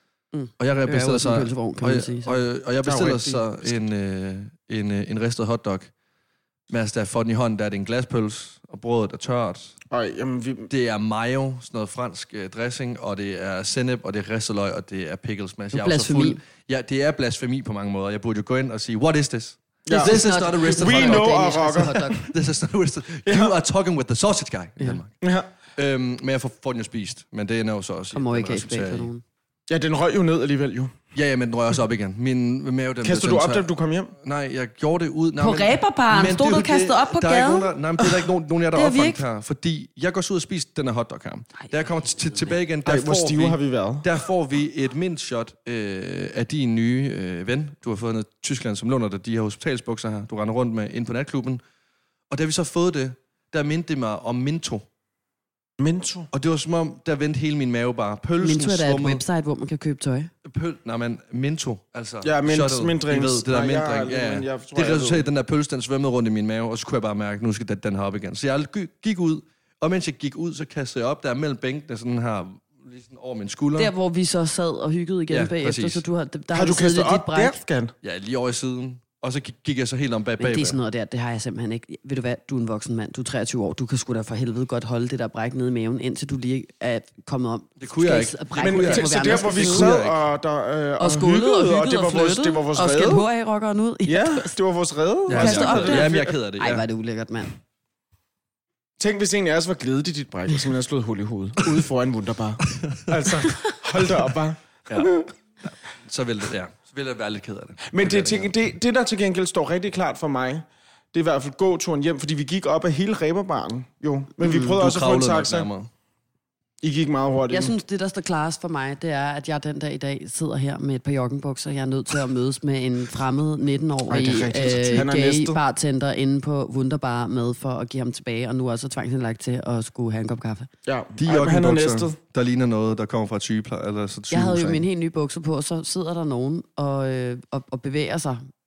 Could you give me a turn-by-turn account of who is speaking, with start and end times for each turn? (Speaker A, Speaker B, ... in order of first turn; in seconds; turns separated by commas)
Speaker A: 0.3-2.4, Speaker B: 0.6-5.9, Speaker C: 2.9-3.5, Speaker B: 6.7-9.8, Speaker C: 9.9-10.7, Speaker B: 10.7-21.4, Speaker A: 15.7-16.4, Speaker C: 19.9-22.3, Speaker A: 19.9-22.2, Speaker B: 22.2-25.2, Speaker C: 23.3-23.5, Speaker C: 25.2-25.5, Speaker B: 25.8-29.1, Speaker A: 28.1-29.2, Speaker C: 29.7-30.9, Speaker B: 31.1-51.6, Speaker C: 33.0-34.1, Speaker A: 35.4-37.7, Speaker A: 38.7-39.2, Speaker A: 42.0-42.5, Speaker C: 42.9-44.1, Speaker B: 52.3-54.9, Speaker C: 55.8-56.3, Speaker B: 56.3-59.2, Speaker A: 58.4-60.3, Speaker B: 60.4-73.9, Speaker C: 62.2-65.3, Speaker A: 73.8-77.6, Speaker B: 75.3-76.0, Speaker C: 76.5-77.9, Speaker B: 78.0-80.8, Speaker A: 80.4-90.0, Speaker B: 87.8-90.2, Speaker C: 88.6-93.3, Speaker A: 91.0-94.5, Speaker C: 94.1-96.3, Speaker B: 95.3-96.8, Speaker A: 95.3-97.5, Speaker C: 99.0-105.3, Speaker B: 102.8-103.1, Speaker B: 104.9-108.5, Speaker C: 107.9-115.7, Speaker B: 114.4-115.9, Speaker C: 116.8-117.7, Speaker A: 117.5-130.7, Speaker C: 124.1-125.6, Speaker C: 130.9-132.2, Speaker B: 131.2-134.8, Speaker A: 134.3-138.4